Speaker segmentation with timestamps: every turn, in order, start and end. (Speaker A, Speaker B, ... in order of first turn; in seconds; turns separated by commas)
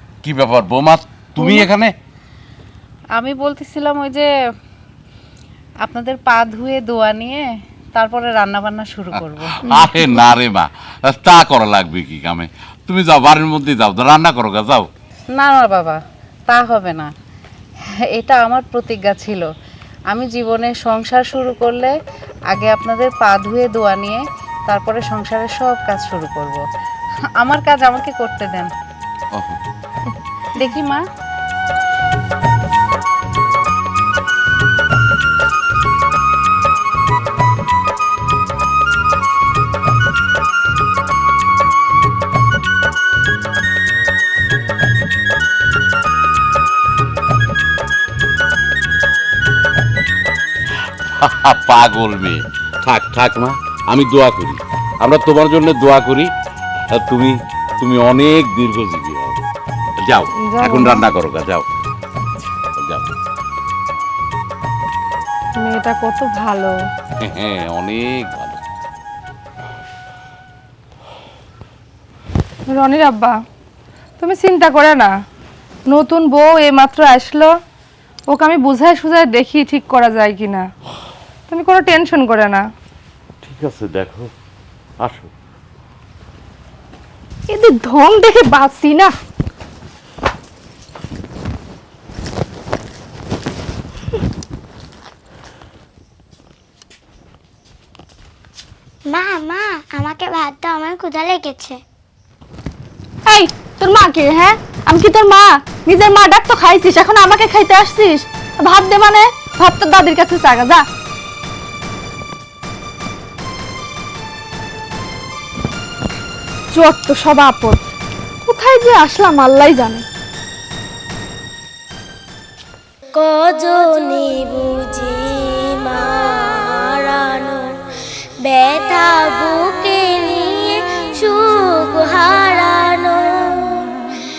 Speaker A: 0.2-1.9, Speaker B: 3.1-4.3, Speaker B: 5.8-10.3, Speaker A: 9.6-14.9, Speaker B: 15.3-17.1, Speaker B: 18.1-19.5, Speaker B: 20.1-21.9, Speaker B: 22.5-26.6, Speaker B: 27.4-28.7, Speaker B: 30.6-31.0, Speaker A: 51.2-56.3, Speaker A: 56.9-59.4, Speaker A: 60.0-61.7, Speaker C: 60.4-61.1, Speaker A: 62.8-63.1, Speaker C: 65.6-66.8, Speaker A: 67.3-68.6, Speaker C: 72.7-73.3, Speaker C: 74.2-75.1, Speaker C: 75.9-77.5, Speaker C: 78.3-80.7, Speaker C: 81.5-82.6, Speaker A: 83.4-84.3, Speaker A: 85.0-85.3, Speaker D: 87.5-89.1, Speaker D: 99.2-101.5, Speaker E: 101.4-101.7, Speaker D: 103.3-110.8, Speaker D: 116.7-117.8, Speaker D: 118.4-120.0, Speaker E: 123.2-127.8, Speaker E: 128.4-133.9